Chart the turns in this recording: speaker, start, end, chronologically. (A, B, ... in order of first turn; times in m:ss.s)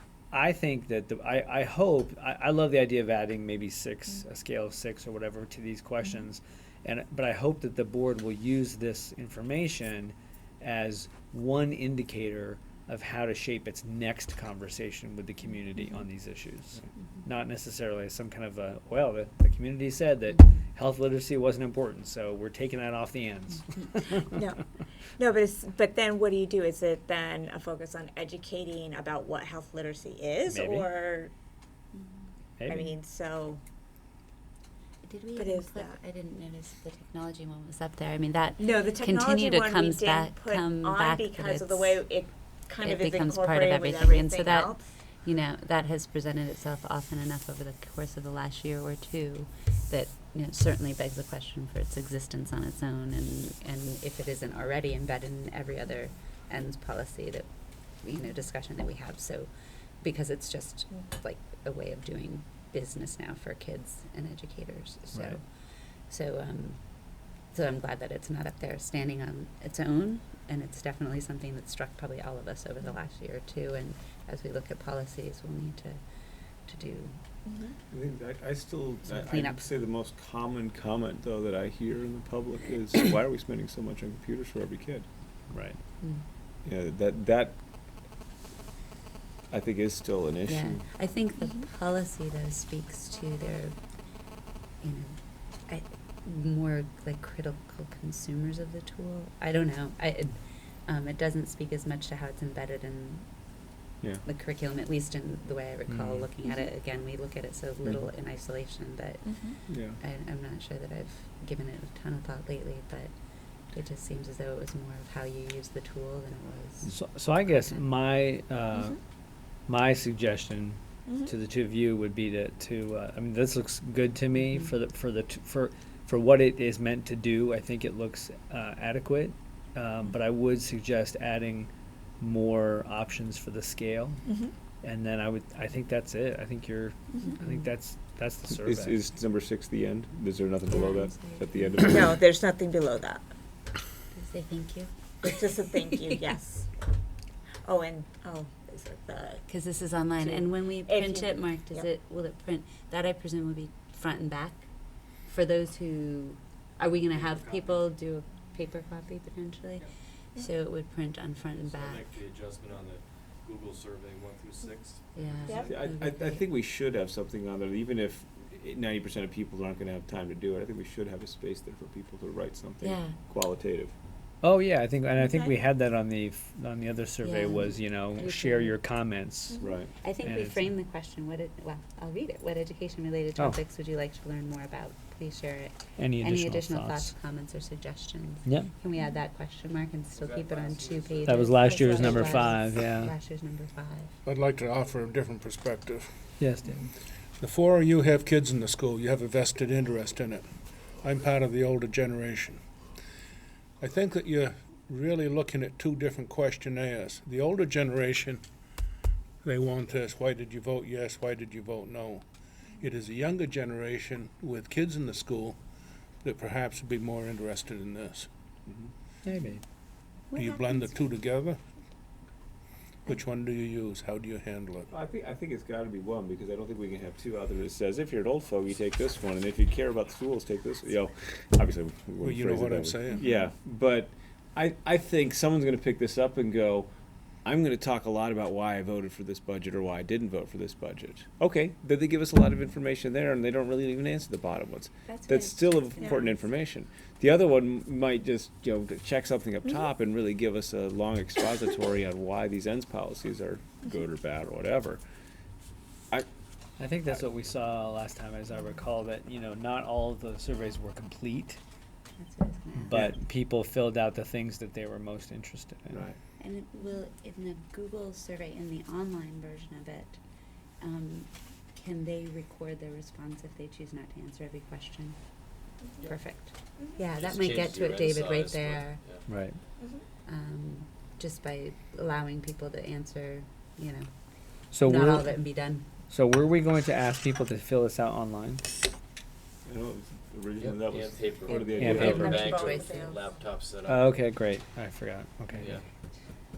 0:00.3-0:24.3 A
0:24.3-0:24.6 B
0:25.2-0:31.3 B
0:30.5-0:30.9 A
0:32.6-0:32.9 A
0:32.7-0:33.6 B
0:35.0-0:42.1 C
0:35.4-0:36.0 B
0:38.6-0:44.8 B
0:42.8-0:57.5 C
0:58.0-0:59.5 C
1:00.0-1:05.4 C
1:05.1-1:05.4 A
1:06.1-1:06.8 C
1:07.5-1:16.0 C
1:16.7-1:17.2 C
1:17.5-1:17.8 B
1:17.9-1:25.1 D
1:19.1-1:19.7 C
1:25.5-1:25.8 A
1:26.6-1:27.6 D
1:29.5-1:30.8 D
1:30.5-1:33.8 C
1:34.8-1:43.3 C
1:44.2-1:53.1 C
1:45.9-1:46.3 A
1:49.3-1:49.6 B
1:49.7-1:50.0 D
1:53.7-1:57.8 C
1:56.8-1:59.0 A
1:59.7-2:14.3 A
2:14.3-2:14.5 B
2:14.8-2:19.0 A
2:17.2-2:17.7 C
2:18.6-2:22.2 D
2:20.7-2:21.7 C
2:21.8-2:23.3 B
2:24.1-2:26.3 C
2:25.2-2:26.7 B
2:27.6-2:29.4 B
2:29.5-2:34.7 C
2:30.2-2:31.9 B
2:35.3-2:42.2 C
2:37.1-2:37.8 E
2:41.6-2:45.7 E
2:45.2-2:46.4 C
2:45.5-2:45.7 B
2:45.6-2:53.9 D
2:52.8-2:53.2 C
2:54.4-2:59.7 A
2:55.2-2:55.5 B
2:57.2-2:58.8 C
2:59.5-2:59.8 B
2:59.6-2:59.9 D
3:00.0-3:14.1 C
3:00.2-3:00.7 A
3:06.0-3:07.1 A
3:08.4-3:08.7 A
3:10.2-3:12.3 E
3:11.3-3:13.2 A
3:14.3-3:16.1 F
3:16.4-3:16.8 A
3:17.4-3:20.5 F
3:21.0-3:22.6 F
3:23.8-3:28.4 F
3:29.4-3:32.2 F
3:32.8-3:35.6 F
3:36.2-3:38.3 F
3:39.2-3:39.6 A
3:40.3-3:41.6 F
3:43.1-3:44.9 F
3:44.9-3:56.9 D
3:52.2-3:53.2 F
3:57.4-4:15.0 D
4:05.1-4:06.4 C
4:06.0-4:06.3 B
4:16.8-4:21.6 A
4:22.2-4:23.0 C
4:22.8-4:26.0 A
4:25.9-4:26.2 D
4:26.4-4:30.2 C
4:30.8-4:35.2 C
4:36.0-4:39.0 C
4:37.2-4:39.2 E
4:39.3-4:39.6 A
4:40.3-4:44.1 C
4:44.7-4:45.4 A
4:44.8-4:45.9 C
4:46.1-4:48.7 A
4:49.6-4:52.6 D
4:50.6-4:54.1 E
4:51.4-4:53.3 C
4:51.8-4:52.3 A
4:52.9-4:53.1 B
4:53.8-4:55.8 A
4:55.6-4:55.8 E